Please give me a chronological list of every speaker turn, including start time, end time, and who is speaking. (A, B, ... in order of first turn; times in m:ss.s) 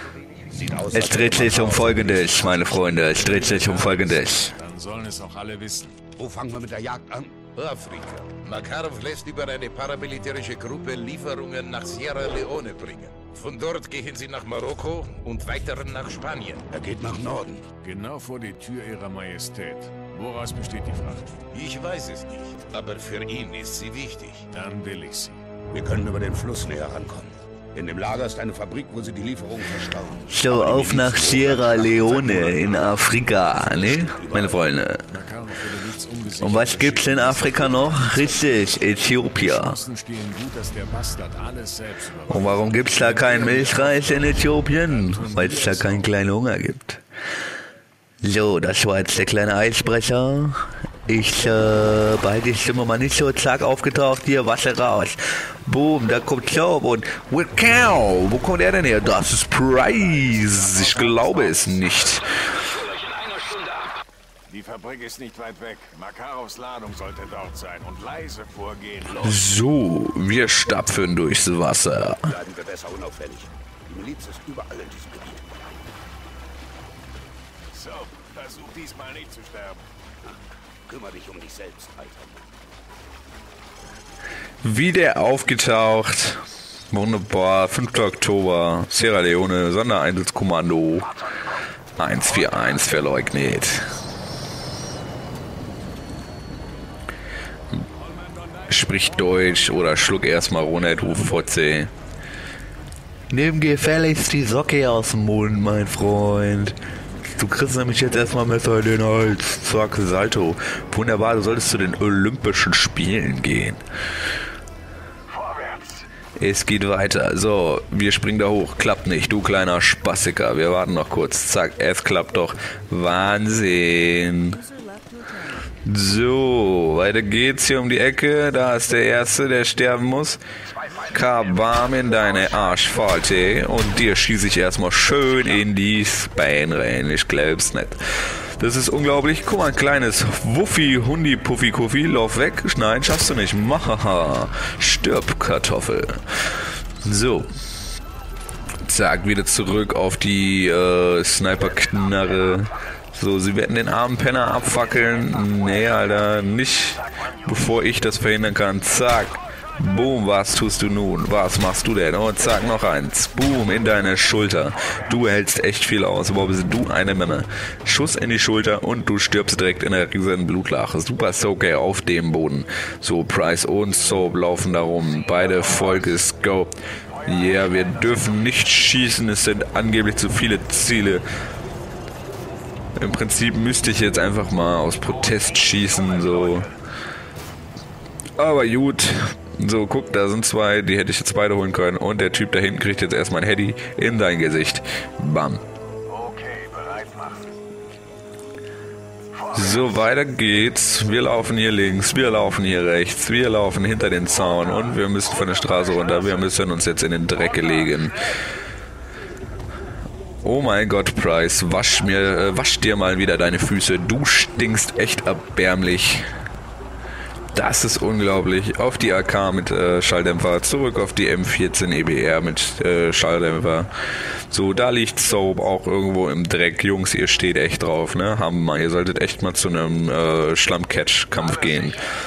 0:00.6-0:02.4 A
0:00.7-0:04.6 B
0:03.5-0:03.9 C
0:04.6-0:06.0 C
0:06.2-0:08.4 A
0:07.6-0:16.7 D
0:16.7-0:17.7 A
0:17.8-0:21.4 C
0:21.5-0:24.5 D
0:24.5-0:25.4 C
0:25.7-0:32.7 A
0:30.3-0:35.1 B
0:33.6-0:34.6 A
0:35.1-0:44.3 C
0:36.4-0:39.8 B
0:42.3-0:47.0 B
0:45.0-0:46.0 C
0:48.2-1:02.4 B
1:04.5-1:09.4 C
1:09.2-1:12.3 B
1:12.3-1:15.4 A
1:17.7-1:19.8 C
1:20.9-1:22.4 A
1:24.6-1:31.1 B
1:32.0-1:33.8 B
1:38.7-1:41.9 B
1:43.3-1:53.8 B
1:56.4-2:04.7 B
2:05.8-2:10.4 B
2:11.1-2:18.0 B
2:18.6-2:26.2 B
2:27.0-2:27.5 B
2:28.8-3:01.2 B
3:03.0-3:06.7 B
3:08.4-3:15.6 B
3:16.1-3:17.5 C
3:19.5-3:28.2 B
3:30.4-3:36.3 B
3:37.5-3:43.9 B
3:44.5-3:52.0 B